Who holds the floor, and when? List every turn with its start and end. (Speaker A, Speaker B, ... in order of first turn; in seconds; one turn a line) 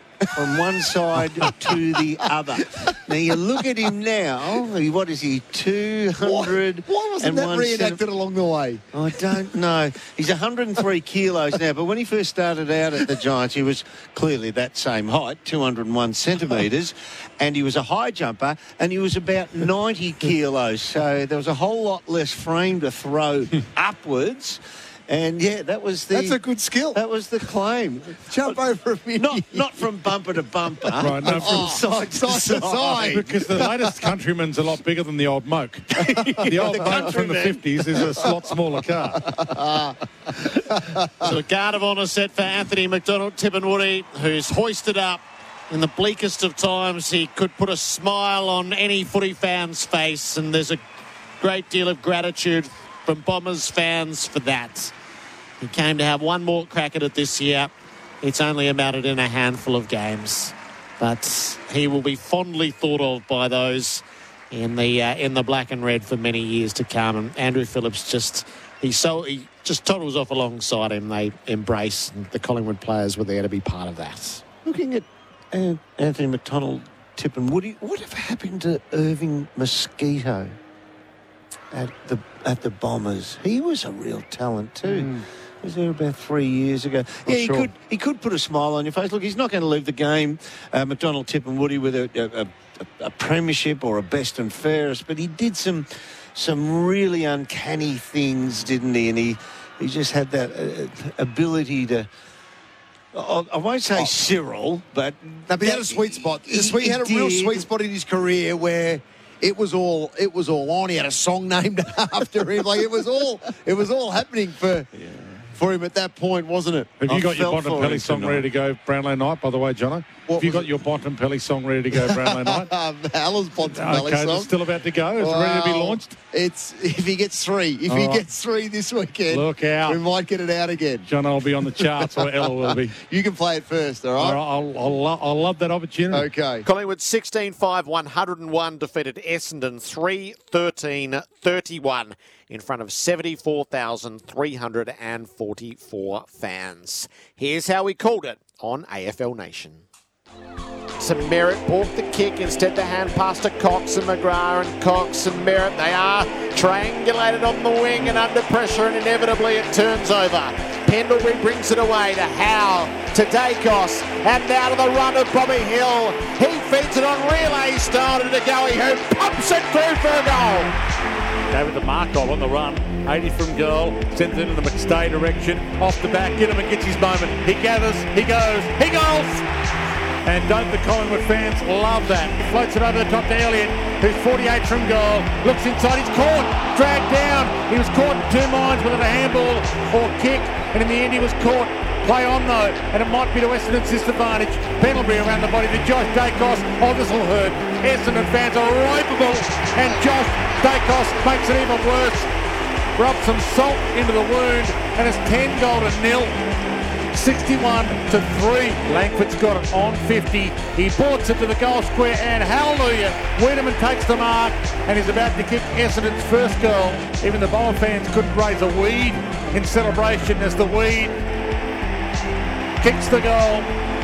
Speaker A: 0.4-8.0
Speaker B: 6.2-8.8
Speaker A: 8.9-26.4
Speaker B: 26.1-27.0
Speaker A: 26.9-28.6
Speaker B: 28.2-29.9
Speaker A: 29.2-33.2
Speaker C: 31.0-31.7
Speaker B: 31.2-34.1
Speaker C: 33.0-39.2
Speaker A: 36.0-38.0
Speaker B: 36.2-37.1
Speaker B: 38.0-38.6
Speaker B: 39.2-41.3
Speaker D: 41.2-50.8
Speaker D: 51.4-54.9
Speaker D: 55.6-74.4
Speaker A: 74.7-80.6
Speaker A: 81.7-102.1
Speaker B: 84.9-85.3
Speaker B: 87.3-87.7
Speaker A: 103.1-107.7
Speaker B: 105.5-114.9
Speaker A: 115.0-115.5
Speaker B: 115.5-117.0
Speaker C: 117.0-122.7
Speaker A: 117.1-118.5
Speaker B: 120.3-120.7
Speaker B: 121.9-124.5
Speaker C: 123.7-126.1
Speaker B: 125.2-131.1
Speaker C: 127.9-128.2
Speaker C: 129.3-130.0
Speaker C: 131.1-132.9
Speaker B: 131.8-134.4
Speaker C: 134.2-136.3
Speaker B: 136.1-136.7
Speaker D: 136.6-149.8
Speaker D: 151.0-170.8
Speaker E: 171.5-179.4
Speaker E: 180.2-202.3
Speaker E: 203.0-206.4
Speaker E: 207.1-221.2
Speaker E: 222.8-223.7